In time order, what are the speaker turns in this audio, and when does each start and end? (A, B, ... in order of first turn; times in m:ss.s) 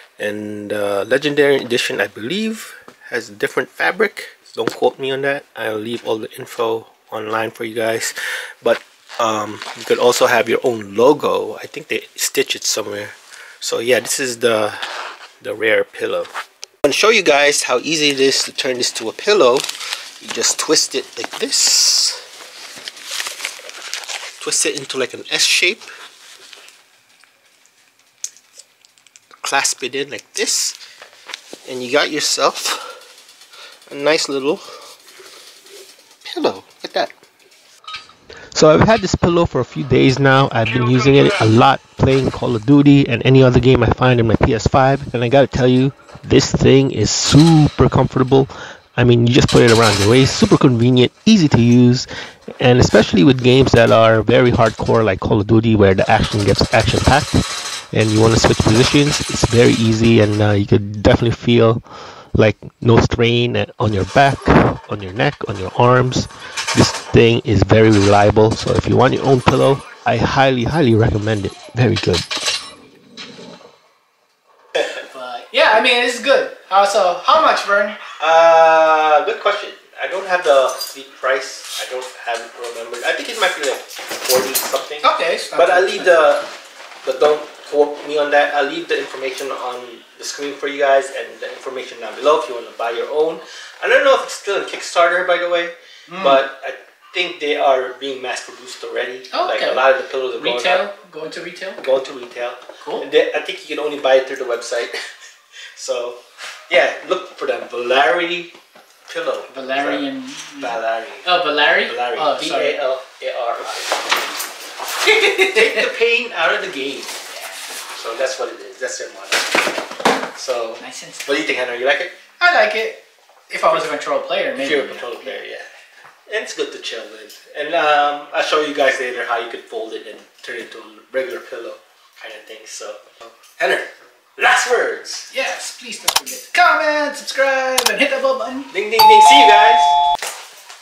0:00.2-0:16.3 A
0:16.8-0:19.7 A
0:20.2-0:22.2 A
0:24.4-0:25.9 A
0:29.4-0:30.8 A
0:31.6-0:33.0 A
0:33.9-0:34.6 A
0:36.2-0:37.1 A
0:38.5-0:52.1 A
0:52.6-1:12.2 A
1:14.9-1:18.0 B
1:18.2-1:26.5 A
1:25.0-1:26.2 B
1:27.0-1:40.9 A
1:36.1-1:36.4 B
1:39.3-1:39.8 B
1:40.4-1:41.8 B
1:41.8-1:45.0 A
1:42.8-1:43.1 B
1:45.8-1:48.5 A
1:49.1-1:54.0 A
1:49.5-1:52.8 B
1:55.0-1:55.9 B
1:55.3-1:57.2 A
1:57.3-1:57.7 B
1:57.9-1:59.6 A
2:00.3-2:02.2 A
2:00.8-2:01.5 B
2:02.4-2:05.4 B
2:04.6-2:05.7 A
2:06.3-2:15.3 A
2:15.3-2:18.7 B
2:18.7-2:20.0 A